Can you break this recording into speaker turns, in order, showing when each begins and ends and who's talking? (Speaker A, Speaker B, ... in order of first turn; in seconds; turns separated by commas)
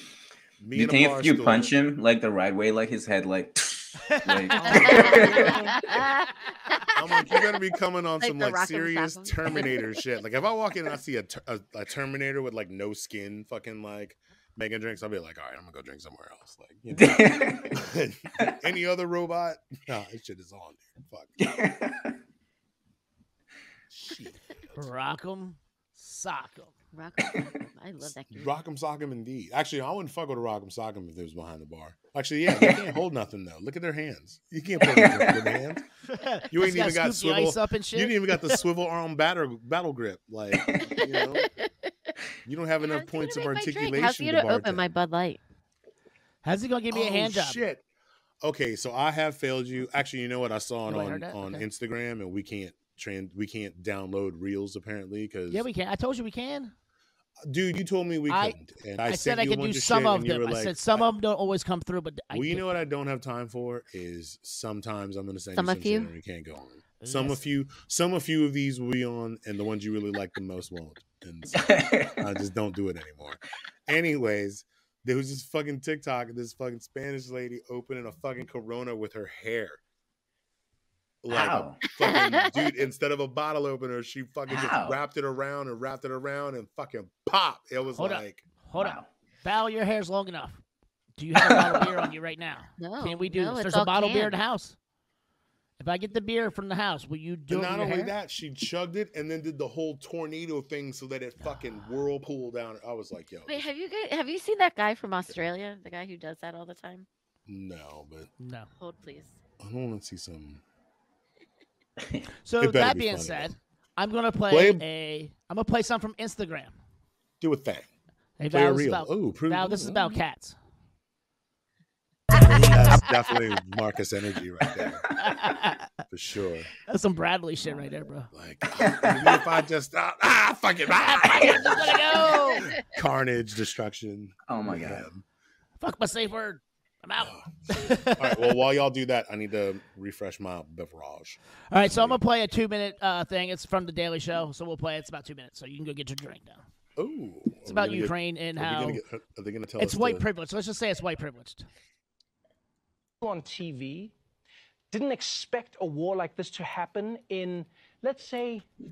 Speaker A: 0.6-1.8, Speaker B: 0.7-5.8, Speaker C: 4.1-4.8, Speaker D: 4.6-7.5, Speaker A: 4.8-5.7, Speaker A: 7.0-21.5, Speaker D: 8.2-9.9, Speaker B: 16.9-17.7, Speaker B: 21.5-22.1, Speaker A: 23.9-24.4, Speaker C: 24.8-26.7, Speaker D: 26.9-28.5, Speaker A: 28.3-35.8, Speaker B: 32.5-32.9, Speaker B: 34.8-35.5, Speaker C: 36.1-38.6, Speaker A: 36.5-41.5, Speaker B: 40.5-40.8, Speaker D: 41.1-41.7, Speaker A: 42.5-44.9, Speaker D: 42.8-45.4, Speaker C: 46.4-47.6, Speaker A: 46.9-47.8, Speaker A: 48.4-55.7, Speaker C: 50.9-51.6, Speaker C: 55.5-56.7, Speaker A: 57.5-61.1, Speaker C: 58.3-62.6, Speaker A: 62.3-79.8, Speaker D: 65.6-66.1, Speaker C: 67.0-67.5, Speaker B: 71.6-72.2, Speaker A: 81.2-88.4, Speaker B: 81.3-81.8, Speaker D: 82.0-82.7, Speaker B: 84.5-85.0, Speaker C: 88.0-90.6, Speaker B: 88.8-89.1, Speaker C: 91.2-94.8, Speaker B: 91.4-91.9, Speaker D: 92.8-94.3, Speaker C: 95.8-98.1, Speaker A: 97.5-103.7, Speaker D: 103.5-107.1, Speaker A: 107.5-108.3, Speaker C: 108.4-108.7, Speaker D: 108.8-109.4, Speaker A: 109.6-110.6, Speaker C: 112.4-116.8, Speaker A: 112.6-113.5, Speaker A: 114.5-114.8, Speaker A: 117.4-117.9, Speaker C: 118.4-120.6, Speaker A: 118.5-119.9, Speaker D: 119.9-120.1, Speaker A: 122.4-125.1, Speaker C: 125.2-125.9, Speaker A: 126.1-126.7, Speaker C: 126.9-128.3, Speaker A: 128.3-135.2, Speaker B: 128.8-129.4, Speaker C: 131.1-132.8, Speaker B: 131.3-131.7, Speaker B: 134.5-135.1, Speaker C: 135.8-138.6, Speaker A: 137.2-142.2, Speaker C: 141.7-146.6, Speaker A: 147.0-150.2, Speaker C: 147.7-149.0, Speaker C: 149.8-151.7, Speaker E: 153.2-154.1, Speaker E: 154.9-158.7